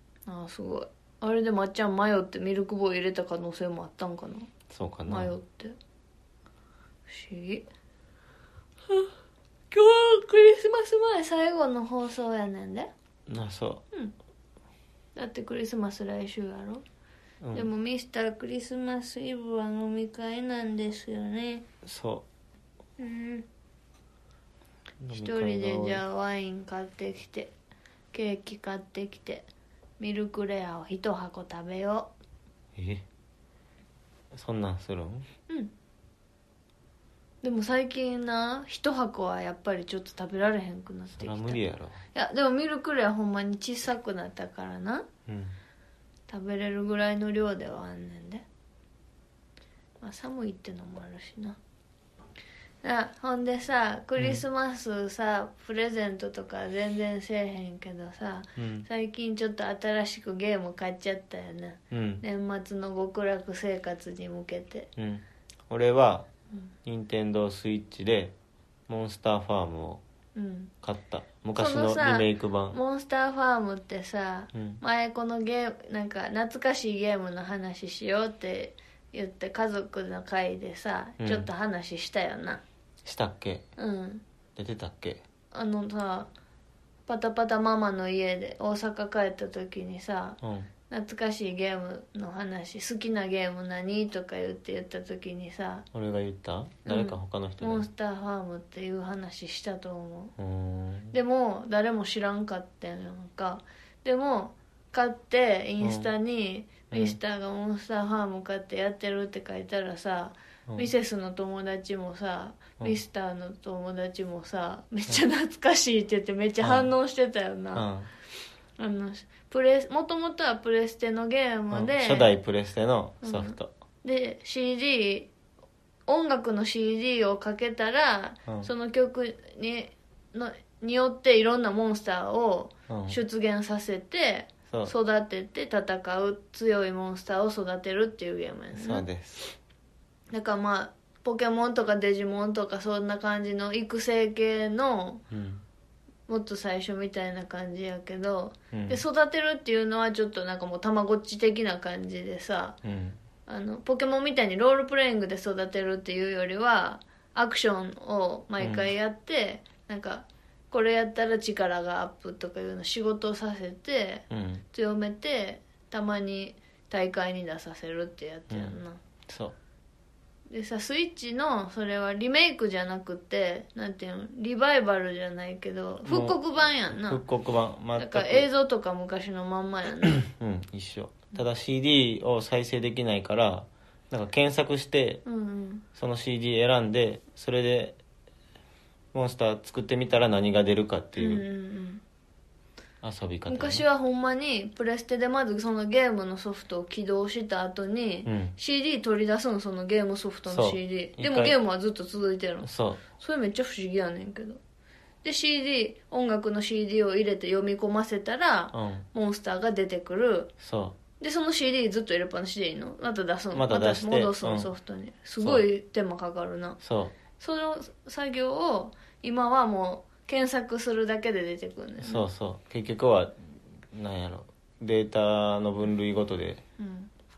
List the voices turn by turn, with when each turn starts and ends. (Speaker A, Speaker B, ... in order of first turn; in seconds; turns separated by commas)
Speaker A: 0.3-4.5, Speaker B: 4.7-5.3, Speaker A: 5.0-5.8, Speaker A: 7.1-7.7, Speaker A: 9.7-12.9, Speaker B: 13.3-13.8, Speaker A: 15.2-16.8, Speaker B: 17.4-17.7, Speaker A: 17.5-21.6, Speaker B: 21.8-22.2, Speaker A: 23.0-23.4, Speaker B: 25.0-26.0, Speaker A: 25.1-27.5, Speaker A: 28.1-29.5, Speaker A: 30.0-32.1, Speaker B: 32.8-33.0, Speaker B: 34.3-35.2, Speaker A: 37.4-41.6, Speaker B: 41.1-42.0, Speaker A: 42.1-45.1, Speaker B: 45.2-45.5, Speaker A: 46.3-48.4, Speaker A: 50.0-51.6, Speaker A: 52.8-64.9, Speaker B: 54.2-54.4, Speaker B: 58.6-58.9, Speaker B: 61.9-62.2, Speaker B: 65.0-66.3, Speaker B: 66.8-68.3, Speaker B: 68.9-70.0, Speaker A: 70.3-70.7, Speaker B: 70.8-72.8, Speaker A: 71.5-82.6, Speaker B: 74.5-74.8, Speaker B: 81.2-81.5, Speaker B: 83.0-83.7, Speaker A: 83.8-84.2, Speaker B: 84.5-85.2, Speaker A: 85.5-86.3, Speaker A: 87.1-95.8, Speaker B: 90.4-90.7, Speaker B: 95.9-97.8, Speaker A: 96.8-100.3, Speaker B: 100.4-101.1, Speaker A: 101.1-117.9, Speaker B: 105.8-106.1, Speaker B: 106.9-107.2, Speaker B: 116.6-116.9, Speaker B: 117.7-118.1, Speaker A: 118.8-122.4, Speaker B: 121.7-123.7, Speaker A: 123.2-125.3, Speaker A: 126.1-139.0, Speaker B: 132.9-133.2, Speaker B: 138.7-139.5, Speaker A: 140.3-145.2, Speaker B: 145.3-145.6, Speaker A: 146.3-152.8, Speaker B: 148.7-149.0, Speaker B: 152.8-153.2, Speaker A: 153.5-169.0, Speaker B: 158.6-158.9, Speaker B: 164.3-164.6, Speaker B: 168.5-168.8, Speaker B: 169.3-169.6, Speaker A: 170.5-177.2, Speaker B: 176.0-178.5, Speaker A: 177.9-180.2, Speaker B: 180.1-185.2, Speaker A: 185.2-185.8, Speaker B: 185.9-188.0, Speaker B: 189.1-191.4, Speaker A: 191.2-192.0, Speaker B: 193.0-193.8, Speaker A: 193.5-204.6, Speaker B: 198.2-198.5, Speaker B: 200.5-201.6, Speaker B: 202.6-203.0, Speaker A: 205.2-210.5, Speaker B: 208.7-209.1, Speaker B: 210.6-211.0, Speaker A: 211.2-216.8, Speaker B: 213.5-214.7, Speaker B: 215.4-215.7, Speaker B: 216.8-217.1, Speaker A: 217.4-222.2, Speaker B: 222.0-226.6, Speaker A: 226.8-227.1